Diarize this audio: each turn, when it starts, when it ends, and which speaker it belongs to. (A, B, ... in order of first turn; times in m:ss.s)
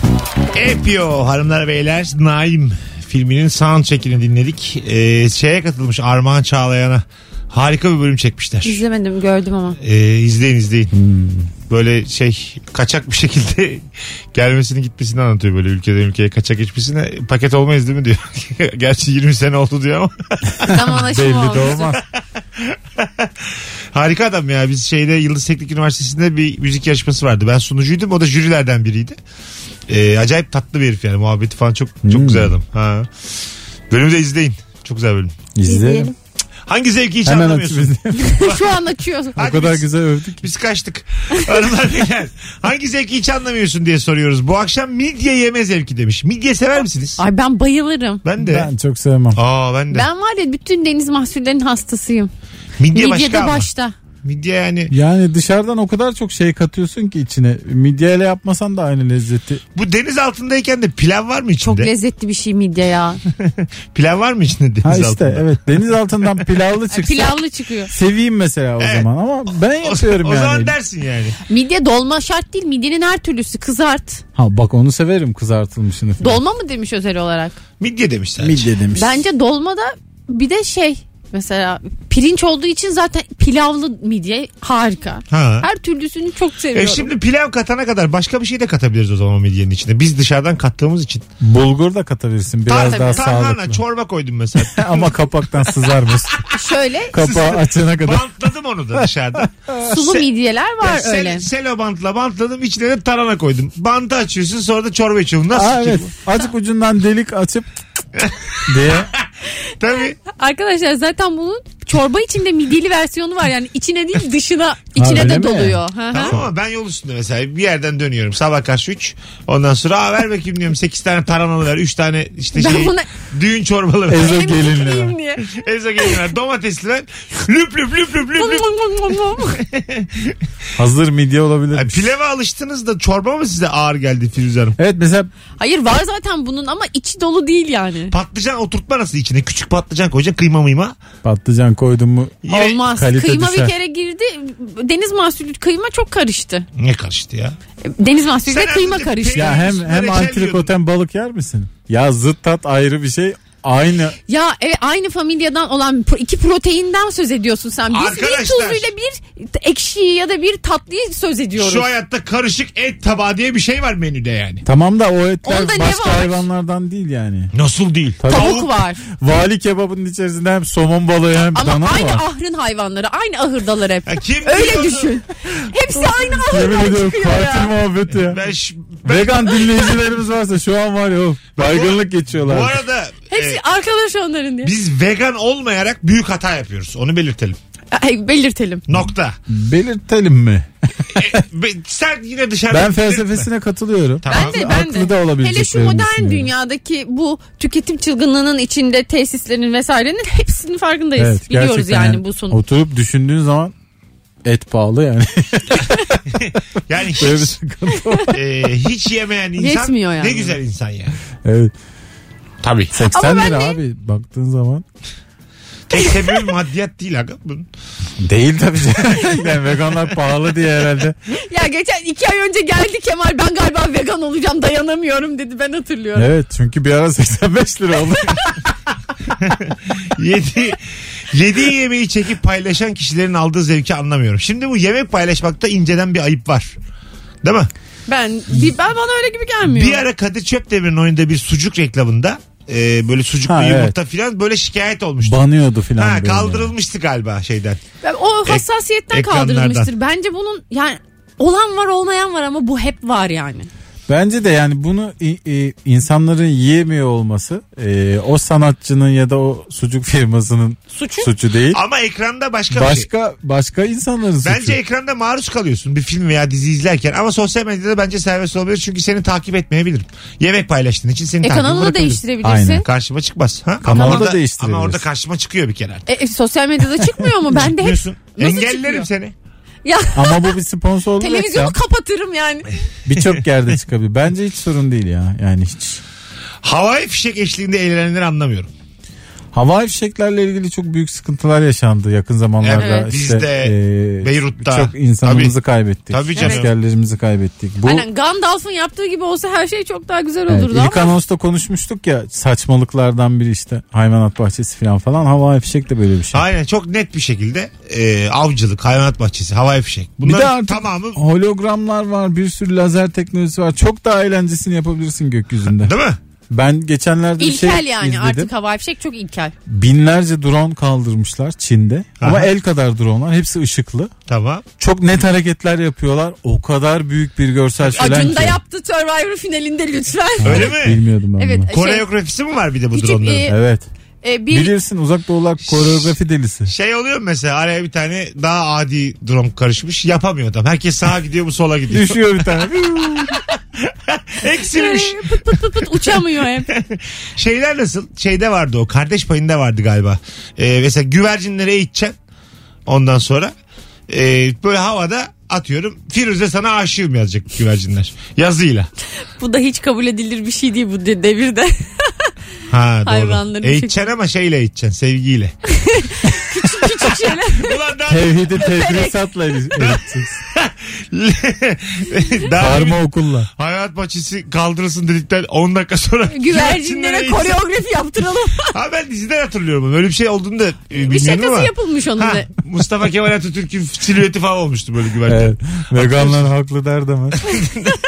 0:00.5-0:08.8 A
0:08.6-0:09.8 B
0:09.8-0:10.9 A
0:10.9-0:11.5 C
0:11.7-0:21.0 A
0:20.6-0:22.0 C
0:20.6-0:21.9 B
0:21.7-0:22.1 A
0:22.6-0:29.2 A
0:29.9-0:33.1 A
0:32.0-0:32.5 C
0:33.9-0:35.3 A
0:35.6-0:36.1 C
0:35.6-0:36.1 B
0:36.7-0:38.8 A
0:37.2-0:38.5 C
0:38.1-0:39.6 B
0:39.4-0:39.9 A
0:39.4-0:40.5 C
0:40.4-0:47.2 A
0:47.2-0:48.2 B
0:48.2-0:48.7 A
0:48.4-0:49.4 C
0:49.3-0:50.1 A
0:49.9-0:52.3 B
0:52.8-0:53.7 A
0:52.9-0:53.9 B
0:54.2-0:54.9 A
0:54.9-0:59.6 C
0:59.8-1:01.9 A
1:01.6-1:03.2 B
1:03.3-1:05.6 A
1:04.8-1:10.8 C
1:06.9-1:07.9 B
1:08.8-1:09.1 A
1:09.8-1:11.4 A
1:11.5-1:14.2 B
1:14.4-1:16.4 C
1:16.2-1:17.6 B
1:17.8-1:18.7 A
1:18.4-1:19.2 C
1:19.0-1:27.1 B
1:25.3-1:25.7 A
1:26.7-1:31.2 A
1:31.4-1:33.8 C
1:32.7-1:35.1 A
1:32.7-1:33.3 B
1:34.6-1:36.4 C
1:35.6-1:36.5 A
1:36.5-1:37.2 B
1:37.1-1:38.3 C
1:37.1-1:40.2 A
1:39.8-1:41.5 B
1:40.8-1:46.1 A
1:45.5-1:47.7 C
1:48.2-1:49.3 A
1:48.7-1:49.1 C
1:49.8-1:50.2 A
1:50.2-1:56.4 B
1:55.0-1:56.5 C
1:56.1-2:04.4 A
2:02.5-2:03.1 B
2:04.1-2:05.2 C
2:04.2-2:05.5 B
2:05.4-2:08.7 A
2:08.4-2:09.6 B
2:09.6-2:10.4 A
2:10.8-2:12.1 C
2:11.7-2:14.8 A
2:14.8-2:15.3 C
2:15.6-2:18.1 B
2:18.1-2:21.0 A
2:21.2-2:23.7 C
2:22.4-2:22.8 A
2:22.5-2:26.7 B
2:26.8-2:27.6 A
2:27.8-2:29.6 B
2:28.4-2:30.7 A
2:29.4-2:34.2 C
2:34.3-2:41.9 B
2:37.9-2:38.9 A
2:41.6-2:44.6 A
2:44.6-2:47.5 C
2:45.4-2:46.4 B
2:47.5-2:48.7 A
2:48.2-2:52.2 C
2:48.3-2:49.0 B
2:51.6-2:57.7 B
2:54.1-2:55.2 A
2:56.3-2:58.4 C
2:58.2-2:59.6 A
2:59.0-3:02.8 C
3:01.6-3:03.6 A
3:03.3-3:04.7 B
3:04.6-3:07.6 A
3:07.9-3:08.8 B
3:08.9-3:09.4 A
3:09.5-3:11.4 C
3:11.1-3:13.5 A
3:12.7-3:16.5 C
3:14.2-3:14.7 A
3:14.3-3:22.6 B
3:21.2-3:23.7 C
3:24.4-3:26.3 C
3:26.4-3:27.6 A
3:27.1-3:28.4 C
3:28.3-3:31.2 A
3:29.6-3:30.6 B
3:31.4-3:31.7 C
3:32.6-3:33.0 A
3:32.9-3:34.8 C
3:33.1-3:33.8 B
3:35.9-3:37.7 A
3:36.0-3:36.5 B
3:38.2-3:41.2 C
3:41.3-3:46.3 B
3:46.2-3:48.7 C
3:49.4-3:56.7 A
3:57.4-3:57.7 A
3:58.1-4:00.0 B
3:59.7-4:05.4 A
4:03.5-4:04.0 C
4:05.2-4:06.7 C
4:06.0-4:07.8 A
4:08.0-4:13.7 B
4:08.5-4:09.9 A
4:14.1-4:21.8 C
4:20.9-4:21.3 B
4:21.7-4:23.1 A
4:22.7-4:24.8 C
4:24.4-4:32.2 A
4:31.4-4:32.9 B
4:32.4-4:32.8 C
4:32.8-4:36.1 A
4:33.8-4:35.0 C
4:33.9-4:34.3 B
4:36.1-4:39.1 B
4:37.5-4:39.3 A
4:39.8-4:40.5 B
4:40.2-4:41.8 C
4:41.2-4:42.8 B
4:43.1-4:46.0 C
4:46.6-4:48.7 A
4:49.5-4:58.0 C
4:52.6-4:55.6 A
4:52.8-4:53.1 B
4:56.1-4:56.7 A
4:56.4-4:56.6 B
4:57.8-5:01.1 B
5:00.5-5:06.4 C
5:06.3-5:11.2 A
5:10.2-5:15.9 C
5:15.8-5:16.2 A
5:16.5-5:18.5 C
5:17.4-5:19.5 B
5:19.7-5:24.1 C
5:22.2-5:22.5 A
5:24.3-5:24.6 A
5:24.8-5:28.6 C
5:27.8-5:28.5 A
5:27.9-5:30.8 B
5:30.4-5:31.7 C
5:30.4-5:31.0 A
5:31.4-5:32.1 B
5:31.7-5:33.5 A
5:32.9-5:33.6 B
5:33.5-5:33.9 C
5:34.2-5:34.7 B
5:34.5-5:36.7 C
5:35.6-5:36.1 A
5:36.7-5:52.2 A
5:41.9-5:43.4 C
5:44.6-5:46.7 B
5:52.9-5:53.5 A
5:54.1-5:58.9 A
5:59.4-6:02.3 B
6:02.7-6:05.6 A
6:03.0-6:04.1 B
6:05.7-6:07.8 B
6:06.9-6:08.4 A
6:08.1-6:10.4 C
6:08.6-6:09.7 B
6:10.5-6:17.6 A
6:12.6-6:13.5 C
6:16.3-6:18.8 B
6:18.7-6:26.5 A
6:21.0-6:22.5 B
6:25.3-6:27.5 C
6:27.4-6:28.0 A